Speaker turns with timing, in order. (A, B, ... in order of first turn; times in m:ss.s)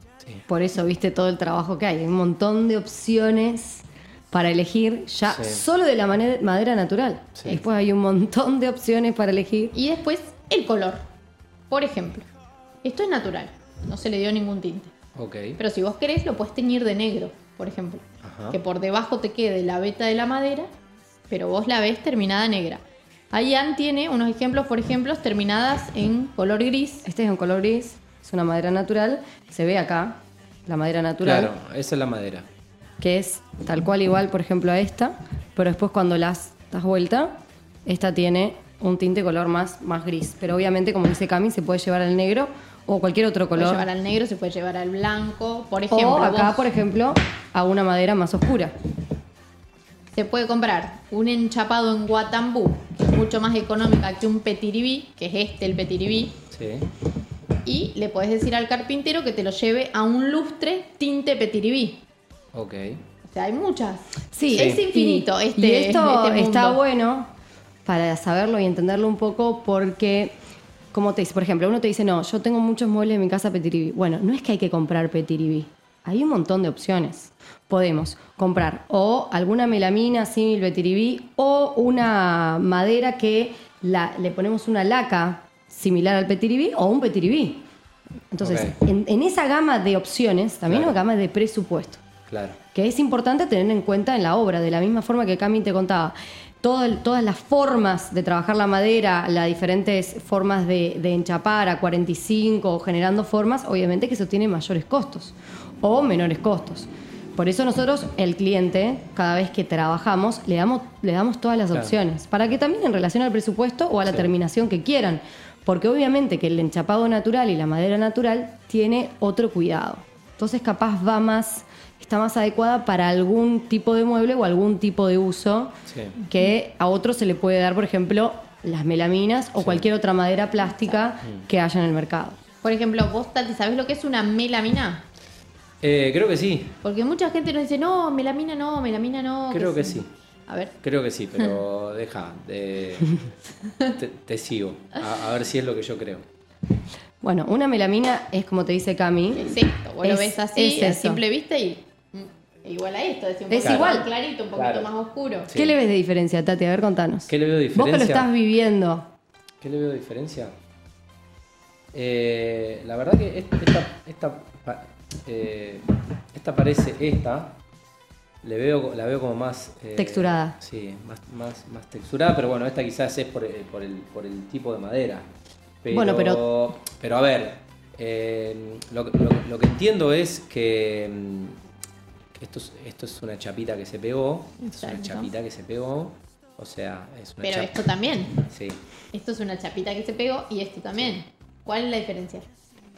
0:00.5-0:09.7 A
0:05.3-0:05.6 B
0:09.7-0:11.0 C
0:11.7-0:12.3 C
0:12.8-0:14.9 C
0:15.2-0:15.6 B
0:15.6-0:20.7 C
0:18.2-0:18.6 B
0:21.3-0:27.0 C
0:27.0-0:31.5 A
0:31.2-0:32.4 B
0:33.0-0:37.3 A
0:37.8-0:43.9 A
0:43.6-0:46.7 C
0:45.9-0:48.7 A
0:50.1-0:56.4 C
0:56.5-0:56.8 B
0:57.6-1:02.0 C
1:02.5-1:03.0 B
1:03.2-1:06.8 C
1:04.3-1:07.3 A
1:04.5-1:04.8 B
1:07.8-1:10.3 A
1:10.9-1:27.6 A
1:28.3-1:32.0 A
1:28.4-1:28.7 B
1:30.7-1:30.9 B
1:32.3-1:32.6 B
1:32.7-2:12.4 A
2:05.9-2:06.1 B
2:09.6-2:09.8 B
2:12.6-2:15.0 C
2:15.8-2:16.8 B
2:16.8-2:20.7 C
2:19.5-2:20.1 B
2:20.8-2:23.2 B
2:24.0-2:26.2 B
2:27.2-2:31.2 A
2:29.3-2:35.5 C
2:33.5-2:34.1 A
2:33.6-2:34.0 B
2:34.5-2:34.9 B
2:35.5-2:35.7 B
2:35.5-2:39.1 A
2:37.3-2:38.3 B
2:39.6-2:40.5 B
2:41.9-2:47.6 B
2:48.4-2:55.3 B
2:50.0-2:50.6 A
2:55.8-3:01.6 B
2:55.9-2:56.4 A
3:02.4-3:07.8 B
3:04.6-3:05.3 C
3:07.4-3:08.4 C
3:08.4-3:08.8 B
3:09.1-3:12.4 C